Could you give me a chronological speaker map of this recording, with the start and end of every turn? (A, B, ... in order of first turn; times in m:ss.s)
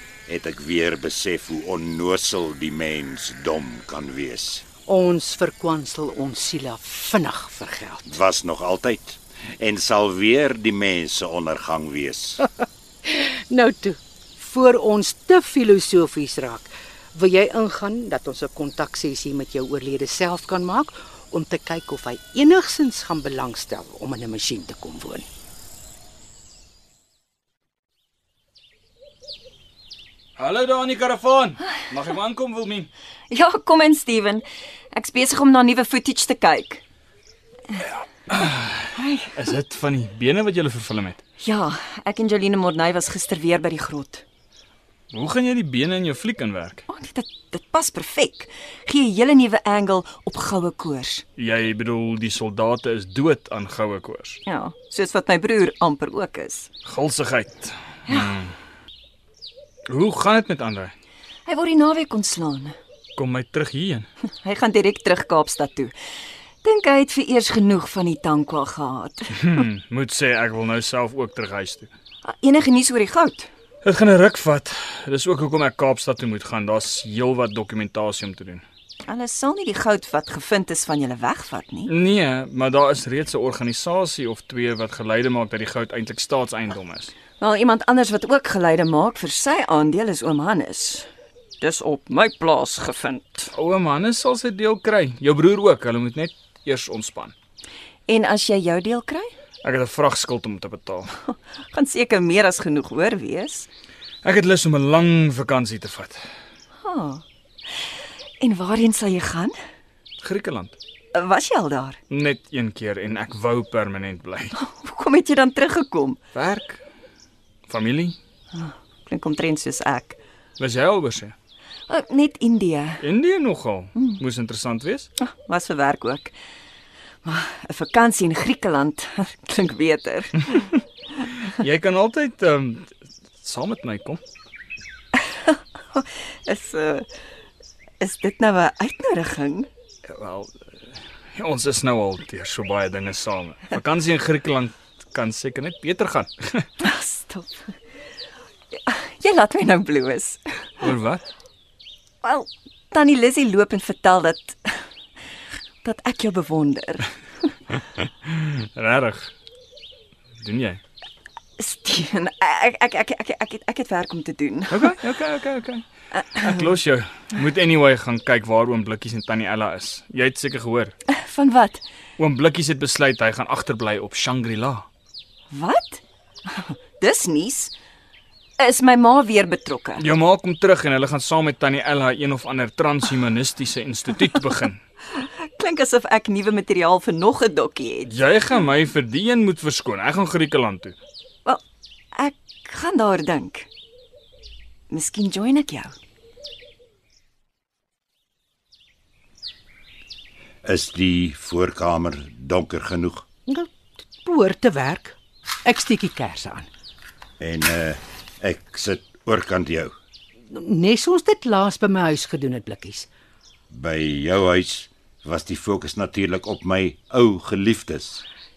0:00.3-0:04.6 A
0:04.9-0:08.1 B
0:08.0-0:12.4 A
0:13.0-0:25.3 B
0:30.4-0:32.9 C
0:33.3-0:36.8 D
0:38.3-0:41.2 C
0:38.9-0:39.4 D
0:41.4-0:44.2 D
0:45.1-0:46.8 C
0:46.9-0:51.2 D
0:51.4-0:54.4 C
0:54.5-0:56.7 D
0:56.8-0:58.5 C
0:58.1-0:58.3 D
0:59.9-1:00.9 C
1:01.5-1:02.8 D
1:03.2-1:04.1 C
1:04.4-1:05.9 D
1:06.6-1:09.6 D
1:09.4-1:11.9 C
1:12.2-1:13.5 D
1:13.8-1:18.6 C
1:19.0-1:21.9 D
1:21.9-1:27.1 C
1:27.4-1:31.1 D
1:31.6-1:33.5 D
1:33.5-1:37.3 C
1:38.1-1:39.3 D
1:39.6-1:41.2 C
1:41.2-1:43.7 D
1:44.2-1:46.2 C
1:46.8-1:49.6 D
1:50.2-1:50.8 C
1:51.2-1:52.0 D
1:52.1-1:54.6 C
1:54.6-1:56.2 D
1:56.4-1:56.8 C
1:57.7-1:58.2 C
1:58.5-2:00.2 D
2:00.6-2:01.4 C
2:01.9-2:03.0 D
2:03.0-2:05.1 C
2:05.2-2:06.3 D
2:07.2-2:10.7 D
2:11.4-2:14.2 C
2:15.2-2:17.1 D
2:18.0-2:19.7 D
2:20.1-2:20.8 C
2:21.4-2:26.7 C
2:26.8-2:27.8 D
2:28.7-2:30.8 D
2:30.8-2:31.2 C
2:32.2-2:34.8 D
2:35.8-2:37.6 D
2:38.2-2:39.3 C
2:40.4-2:40.8 C
2:41.6-2:45.0 D
2:44.7-2:45.8 C
2:46.1-2:46.7 D
2:46.4-2:50.9 C
2:51.1-2:51.8 D
2:52.2-2:54.9 C
2:55.5-2:57.7 D
2:58.6-3:00.0 D
3:00.0-3:04.8 C
3:05.0-3:08.2 D
3:08.1-3:11.0 C
3:12.1-3:13.7 D
3:14.9-3:16.0 D
3:20.6-3:23.2 A
3:23.5-3:26.7 B
3:27.4-3:29.9 A
3:30.5-3:33.1 B
3:33.7-3:38.2 A